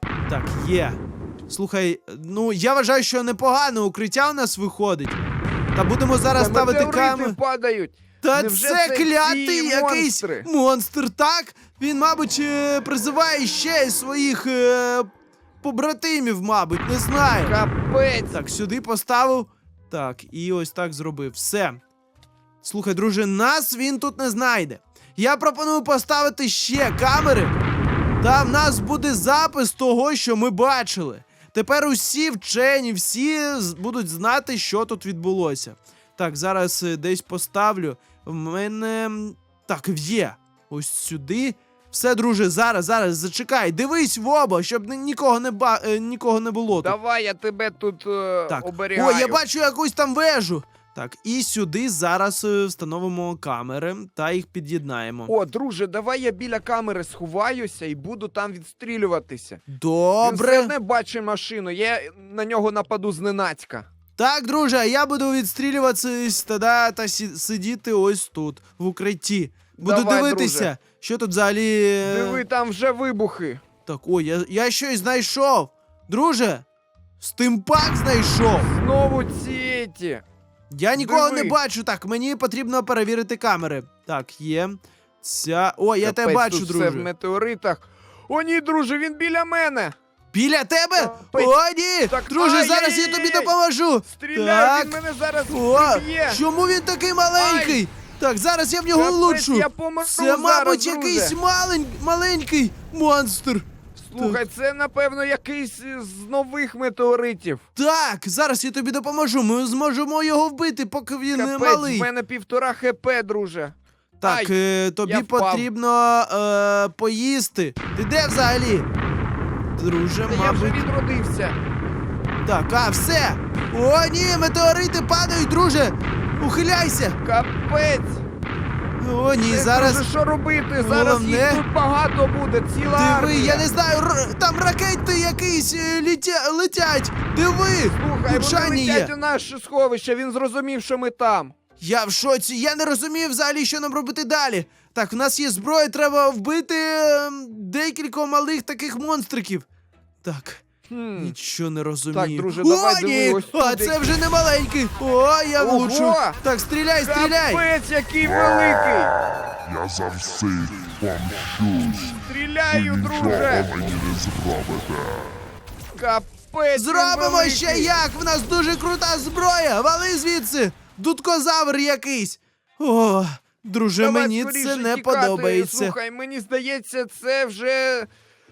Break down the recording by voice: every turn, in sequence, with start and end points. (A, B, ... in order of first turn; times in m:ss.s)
0:00.3-0:05.2 A
0:05.7-0:07.4 A
0:06.3-0:10.5 B
0:08.2-0:15.1 A
0:15.6-0:17.5 A
0:17.2-0:18.3 B
0:18.3-0:21.8 A
0:22.6-0:27.5 A
0:28.2-0:46.9 A
0:46.8-0:49.4 B
0:48.5-0:55.3 A
0:55.3-0:59.6 B
0:59.7-1:00.7 A
1:00.2-1:03.9 B
1:04.2-1:12.4 A
1:09.8-1:10.7 B
1:12.0-1:13.6 B
1:13.8-1:16.6 A
1:17.2-1:18.7 A
1:18.6-1:20.2 B
1:20.7-1:27.1 A
1:21.0-1:21.6 B
1:26.0-1:29.9 B
1:30.3-1:44.4 A
1:31.0-1:31.5 B
1:32.1-1:33.5 B
1:34.1-1:36.4 B
1:37.4-1:37.8 B
1:38.9-1:41.4 B
1:44.0-1:47.6 B
1:47.7-1:52.1 A
1:51.3-1:54.5 B
1:54.2-1:58.9 A
1:55.0-1:55.7 B
1:59.8-2:00.8 A
2:00.3-2:01.6 B
2:02.4-2:07.2 A
2:07.2-2:08.2 B
2:09.0-2:10.0 A
2:09.4-2:13.7 B
2:10.8-2:11.6 A
2:12.8-2:19.1 A
2:17.9-2:21.5 B
2:21.8-2:29.6 A
2:30.2-2:30.6 A
2:30.9-2:31.3 B
2:31.1-2:37.6 A
2:32.1-2:34.1 B
2:35.6-2:36.4 B
2:37.0-2:39.1 B
2:39.6-2:42.1 C
2:42.1-2:43.8 B
2:43.7-2:45.3 C
2:45.9-2:48.0 B
2:46.7-2:55.9 A
2:54.0-2:58.1 B